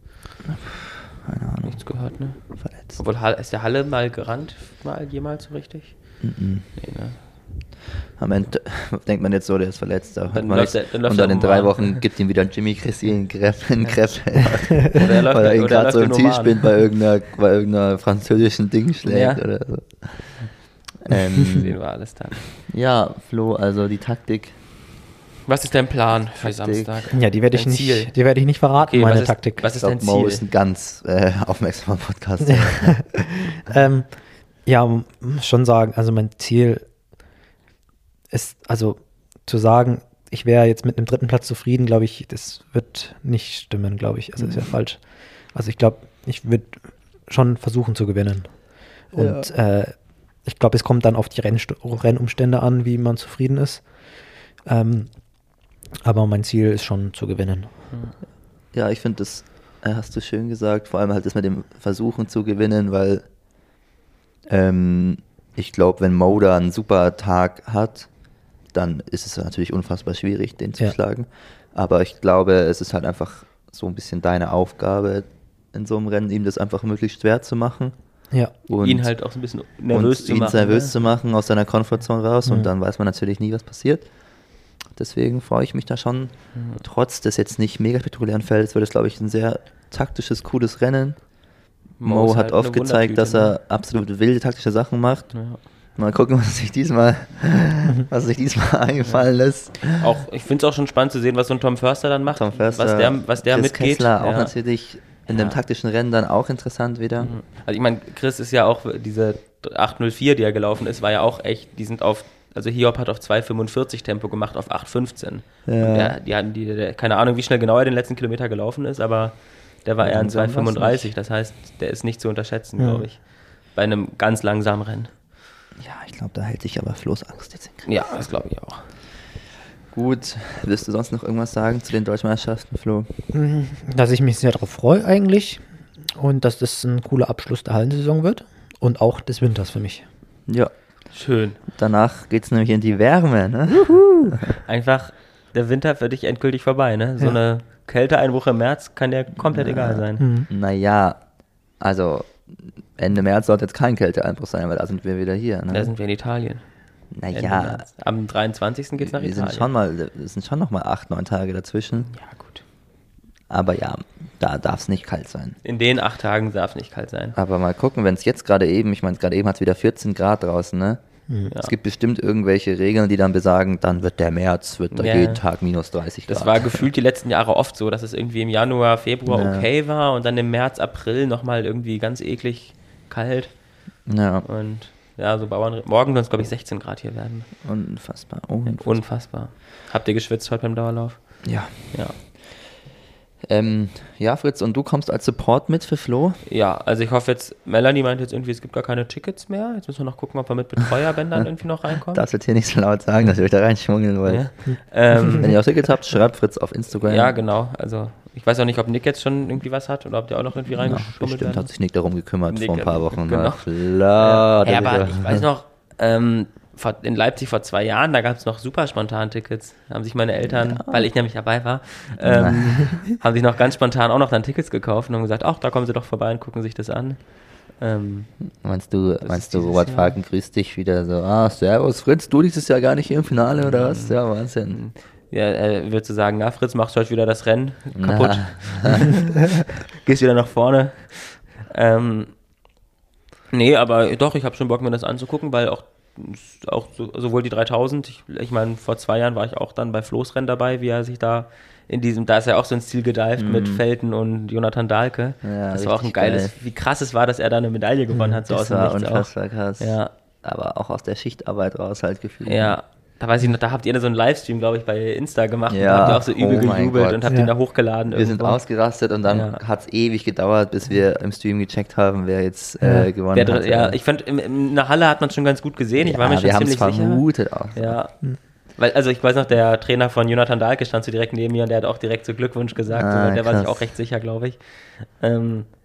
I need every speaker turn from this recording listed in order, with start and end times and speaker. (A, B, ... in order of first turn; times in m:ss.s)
0:00.4-0:01.8 A
0:01.6-0:02.4 B
0:02.6-0:03.0 A
0:02.9-0:06.0 B
0:06.2-0:06.7 A
0:06.8-0:07.2 B
0:08.2-0:20.5 A
0:10.3-0:12.0 B
0:14.9-0:16.7 B
0:19.0-0:19.4 B
0:21.0-0:21.8 A
0:21.4-0:22.5 B
0:22.6-0:24.6 A
0:25.5-0:28.1 B
0:26.4-0:27.1 A
0:27.1-0:29.7 C
0:28.8-0:30.4 B
0:29.7-0:33.1 A
0:32.4-0:34.1 C
0:34.7-0:36.8 C
0:38.3-0:45.0 C
0:44.4-0:44.7 A
0:45.5-0:48.5 C
0:49.1-0:49.9 C
0:49.1-0:49.5 A
0:50.4-0:53.8 C
0:54.7-0:55.1 C
0:56.0-0:57.7 C
0:58.7-1:03.2 A
1:04.5-1:08.1 A
1:08.7-1:17.9 A
1:18.7-1:19.1 A
1:18.8-1:21.0 B
1:19.9-1:24.1 A
1:25.0-1:31.2 A
1:26.6-1:26.8 B
1:32.0-1:33.5 B
1:32.0-1:35.3 A
1:35.3-1:35.6 B
1:36.0-1:40.2 A
1:39.8-1:44.5 B
1:42.3-1:47.3 A
1:45.3-1:45.6 B
1:47.2-2:03.2 B
1:55.7-1:56.2 A
2:00.0-2:01.1 A
2:02.8-2:03.1 C
2:03.7-2:05.1 B
2:05.8-2:07.9 A
2:07.9-2:08.8 B
2:09.9-2:13.1 A
2:13.3-2:15.6 C
2:16.1-2:20.0 C
2:21.1-2:21.6 B
2:21.7-2:24.6 A
2:23.8-2:24.4 C
2:24.6-2:30.3 B
2:29.4-2:31.2 A
2:30.2-2:30.5 C
2:31.8-2:35.9 A
2:35.7-2:36.6 B
2:37.1-2:37.9 A
2:37.3-2:39.7 B
2:39.0-2:42.1 A
2:42.1-2:42.6 B
2:43.5-2:45.6 A
2:45.6-2:47.4 B
2:47.4-2:51.0 A
2:51.6-2:56.9 A
2:54.9-2:55.4 B
2:56.3-3:03.5 B
2:59.3-2:59.7 A
3:04.1-3:04.4 A
3:04.4-3:07.5 B
3:07.6-3:09.0 A
3:08.7-3:11.2 B
3:11.4-3:11.7 A
3:11.8-3:12.2 B
3:13.5-3:16.4 A
3:16.5-3:22.3 B
3:22.1-3:24.4 A
3:24.3-3:25.6 B
3:25.3-3:27.4 A
3:27.0-3:31.7 B
3:30.7-3:35.5 A
3:32.5-3:48.3 B
3:40.5-3:41.1 A
3:42.2-3:43.0 A
3:48.6-3:54.8 A
3:49.2-3:50.2 B
3:53.6-3:54.2 B
3:54.7-4:02.3 B
3:58.0-3:59.1 A
4:03.5-4:20.1 B
4:13.4-4:13.8 A
4:15.4-4:16.5 A
4:18.1-4:18.4 C
4:18.5-4:22.8 A
4:22.5-4:28.6 B
4:25.7-4:27.3 A
4:28.1-4:34.0 A
4:29.3-4:29.6 B
4:32.8-4:33.1 C
4:33.3-4:37.2 B
4:36.0-4:38.0 A
4:37.8-4:38.2 B
4:38.8-4:45.7 B
4:42.9-4:43.8 A